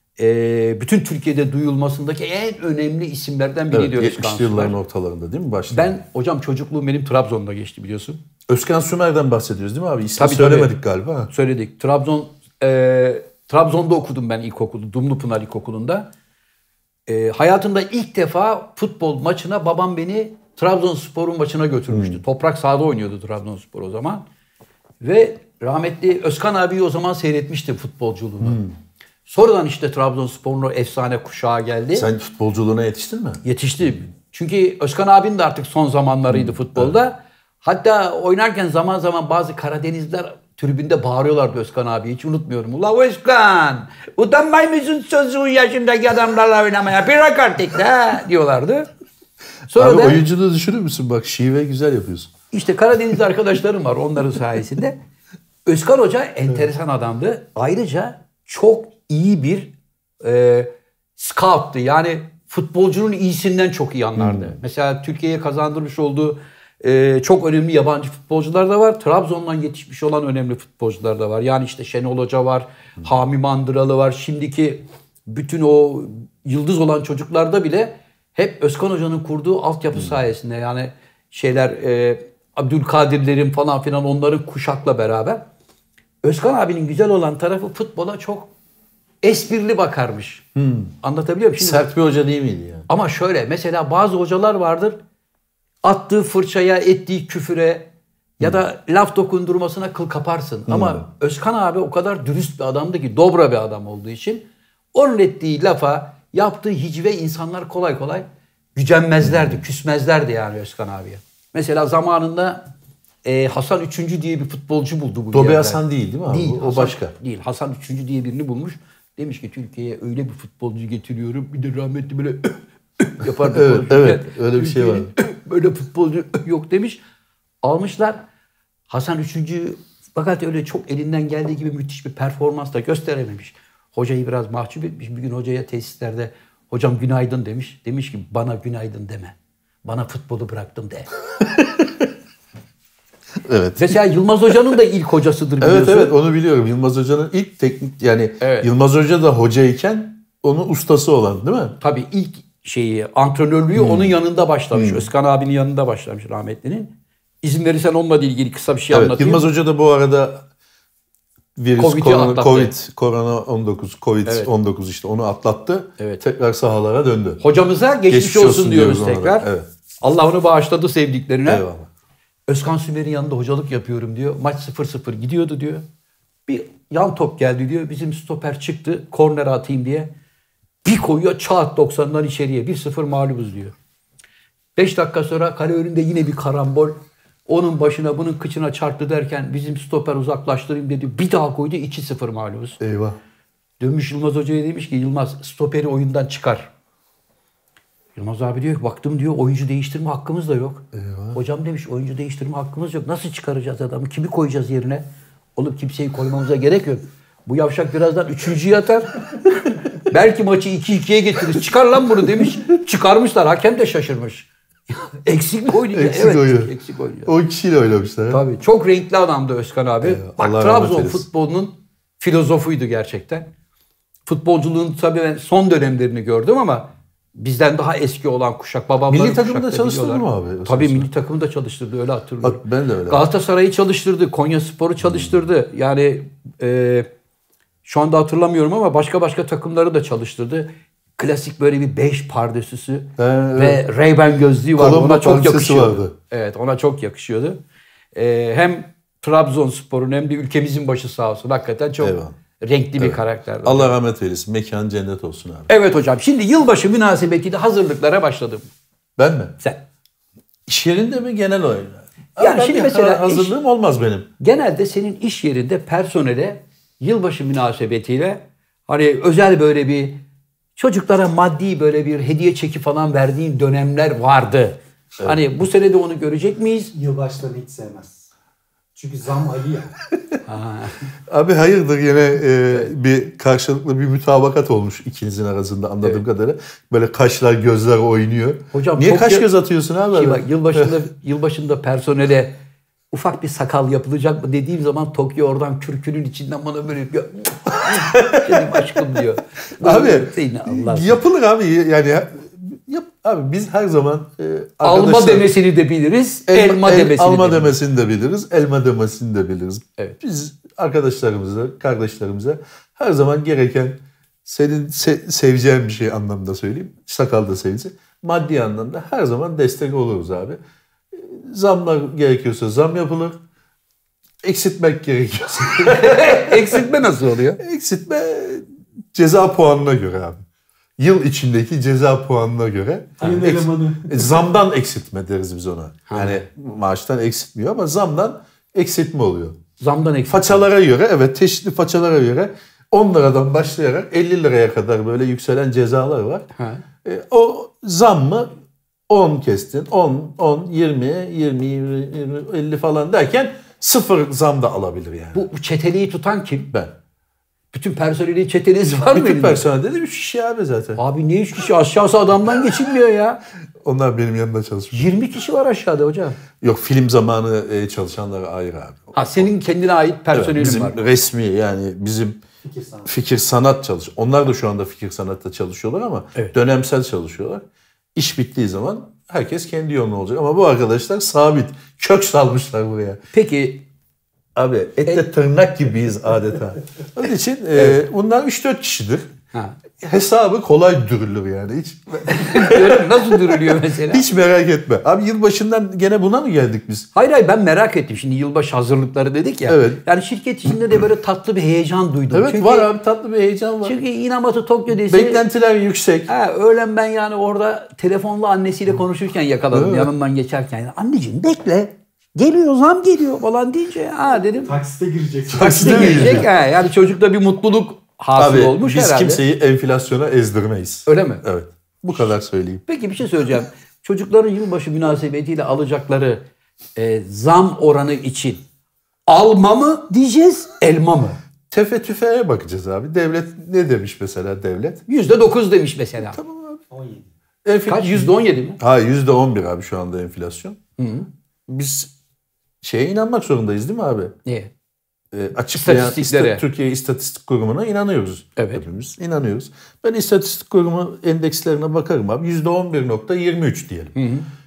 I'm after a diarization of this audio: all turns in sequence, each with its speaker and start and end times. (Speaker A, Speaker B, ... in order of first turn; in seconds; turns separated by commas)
Speaker A: 0.2-4.8, Speaker B: 3.7-6.0, Speaker A: 5.7-8.2, Speaker B: 8.5-11.3, Speaker A: 10.2-10.7, Speaker A: 11.3-16.1, Speaker A: 17.1-24.2, Speaker B: 21.9-22.2, Speaker A: 25.0-28.6, Speaker B: 28.4-28.7, Speaker A: 29.2-32.1, Speaker B: 31.9-33.9, Speaker A: 33.4-48.9, Speaker B: 36.3-37.0, Speaker A: 49.7-50.2, Speaker B: 49.7-52.3, Speaker A: 52.5-55.0, Speaker A: 55.6-85.4, Speaker B: 64.2-64.6, Speaker A: 86.2-88.5, Speaker A: 89.2-90.5, Speaker B: 90.5-90.9, Speaker A: 91.0-91.8, Speaker B: 91.6-92.9, Speaker A: 92.9-95.0, Speaker A: 95.8-112.6, Speaker B: 100.7-101.0, Speaker B: 109.2-109.6, Speaker A: 113.2-127.0, Speaker B: 115.3-117.1, Speaker B: 123.4-125.1, Speaker A: 127.6-128.2, Speaker A: 128.9-141.1, Speaker B: 141.4-142.1, Speaker B: 143.4-144.0, Speaker A: 143.8-146.1, Speaker B: 145.6-151.8, Speaker A: 148.4-148.7, Speaker A: 151.8-159.5, Speaker B: 153.8-154.2, Speaker B: 154.7-155.1, Speaker B: 158.9-160.4, Speaker B: 161.6-167.4, Speaker A: 161.8-162.7, Speaker A: 164.2-164.5, Speaker A: 167.4-169.5, Speaker B: 168.1-169.7, Speaker A: 170.0-171.6, Speaker B: 171.4-171.9, Speaker A: 172.5-175.8, Speaker A: 176.5-180.1, Speaker A: 180.8-183.7, Speaker A: 184.8-192.8, Speaker B: 192.8-193.2, Speaker A: 193.8-196.7, Speaker A: 198.2-209.2, Speaker B: 200.9-201.4, Speaker A: 210.0-217.3, Speaker B: 215.9-216.7, Speaker B: 217.2-218.4, Speaker A: 218.3-223.5, Speaker B: 220.0-221.2, Speaker A: 224.2-237.1, Speaker B: 229.1-231.1, Speaker B: 232.4-233.2, Speaker A: 237.8-247.6, Speaker B: 243.2-243.8, Speaker B: 244.8-246.1, Speaker A: 248.1-253.9, Speaker B: 252.0-252.3, Speaker B: 253.0-255.7, Speaker A: 255.7-258.7, Speaker B: 259.2-259.6, Speaker B: 260.7-264.3, Speaker A: 262.4-263.5, Speaker A: 264.4-270.2, Speaker A: 270.8-276.9, Speaker C: 276.9-278.3, Speaker C: 278.9-279.9, Speaker A: 280.4-281.1, Speaker B: 281.3-290.9, Speaker A: 288.7-289.5, Speaker A: 290.1-292.5, Speaker A: 293.1-301.2, Speaker B: 297.9-298.8, Speaker B: 299.8-305.5, Speaker A: 304.8-307.8, Speaker B: 306.5-320.6, Speaker B: 321.1-323.4, Speaker B: 324.4-326.8, Speaker A: 325.8-327.6, Speaker B: 327.6-330.4, Speaker B: 331.0-339.6, Speaker C: 333.2-334.4, Speaker A: 336.1-336.4, Speaker A: 339.8-340.6, Speaker B: 340.3-346.5, Speaker A: 346.6-346.8, Speaker B: 347.0-348.5, Speaker B: 349.1-355.4, Speaker A: 355.3-356.7, Speaker A: 357.7-359.6, Speaker B: 359.1-361.0, Speaker A: 361.0-363.4, Speaker B: 363.8-365.1, Speaker A: 364.9-366.4, Speaker B: 366.6-369.5, Speaker A: 369.1-371.0, Speaker B: 370.3-372.4, Speaker C: 372.6-373.1, Speaker B: 373.0-377.6, Speaker B: 378.1-383.2, Speaker A: 383.3-383.8, Speaker B: 384.5-389.3, Speaker B: 390.0-397.1, Speaker A: 392.3-394.2, Speaker A: 397.1-402.9, Speaker B: 399.7-400.0, Speaker B: 402.3-404.0, Speaker A: 403.8-405.4, Speaker B: 405.1-406.3, Speaker A: 406.3-414.7, Speaker B: 409.7-410.1, Speaker C: 414.6-416.4, Speaker B: 415.5-416.5, Speaker A: 415.5-419.4, Speaker B: 418.4-422.8, Speaker A: 421.1-421.4, Speaker A: 422.9-426.4, Speaker A: 426.9-428.6, Speaker A: 429.3-431.4, Speaker B: 431.7-435.0, Speaker A: 435.1-436.4, Speaker B: 436.3-436.8, Speaker C: 436.9-437.3, Speaker B: 437.6-440.8, Speaker A: 437.9-438.8, Speaker A: 441.0-441.3, Speaker B: 441.7-442.1, Speaker B: 442.8-444.3, Speaker B: 445.3-454.1, Speaker A: 445.7-446.6, Speaker A: 448.6-448.8, Speaker A: 454.1-454.5